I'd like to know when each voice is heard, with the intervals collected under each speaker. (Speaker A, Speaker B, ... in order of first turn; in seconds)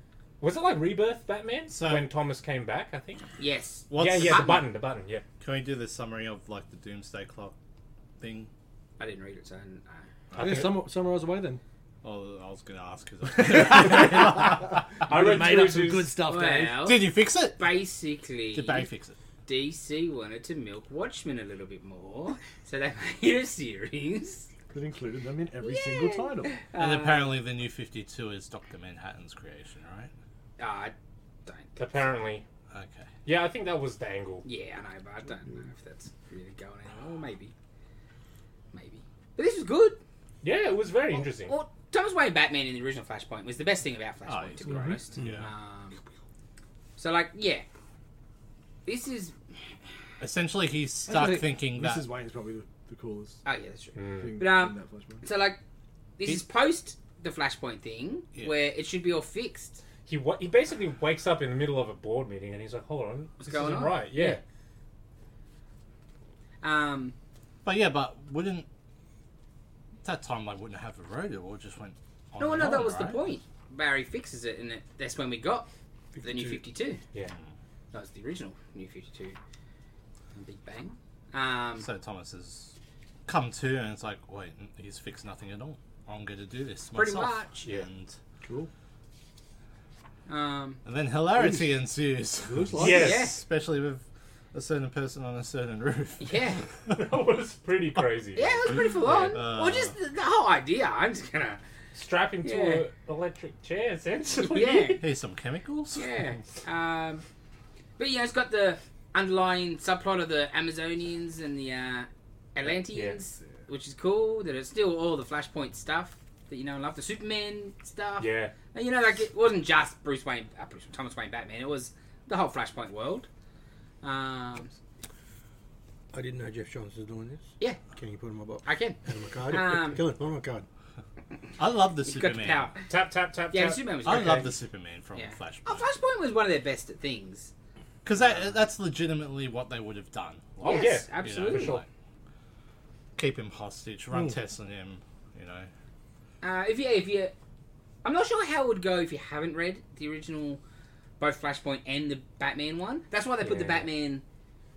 Speaker A: 0.4-3.2, 4.0-5.2, 10.4-10.8, 15.0-16.2, 31.8-32.4, 33.2-34.5, 40.4-41.5, 54.0-54.4, 60.0-64.4, 92.8-93.3, 96.9-99.4, 101.9-105.1, 112.6-113.2, 118.2-118.5, 132.9-134.2, 140.6-141.8, 153.4-153.9
Speaker B: 1.7-2.1, 3.9-4.7, 5.4-7.5, 8.2-8.5, 10.3-10.7, 12.0-14.9, 16.8-17.7, 18.5-19.2, 26.8-30.1, 32.7-33.1, 44.2-45.5, 50.2-52.0, 67.6-68.7, 70.0-73.3, 81.8-82.7, 83.2-88.2, 90.8-97.0, 99.1-99.9, 105.0-106.2, 131.6-132.7, 134.0-135.9, 138.0-141.8, 143.2-145.7
Speaker C: 3.4-4.6, 9.0-10.0, 16.2-18.9, 19.4-24.5, 25.6-27.4, 30.6-30.9, 31.4-31.8, 34.4-37.5, 38.7-40.0, 41.3-46.0, 47.0-47.6, 48.9-49.3, 53.4-55.6, 56.2-59.8, 63.4-64.4, 66.6-67.1, 72.4-75.7, 76.2-77.0, 77.9-79.4, 80.3-81.9, 86.9-87.7, 90.3-90.8, 92.8-93.4, 96.2-96.6, 98.3-101.6, 102.4-102.8, 104.4-105.0, 105.9-107.2, 108.0-123.3, 124.0-124.7, 128.6-130.0, 132.0-132.8, 133.5-134.6, 135.1-137.5, 138.2-138.5, 140.6-141.8, 146.4-147.3, 148.0-150.6, 151.2-154.2
Speaker D: 10.4-11.6, 13.9-14.4, 15.1-16.9, 24.7-26.6, 51.1-53.4, 54.2-55.2, 76.2-76.6, 88.4-88.7, 91.3-91.7, 92.4-93.2
Speaker E: 126.1-130.7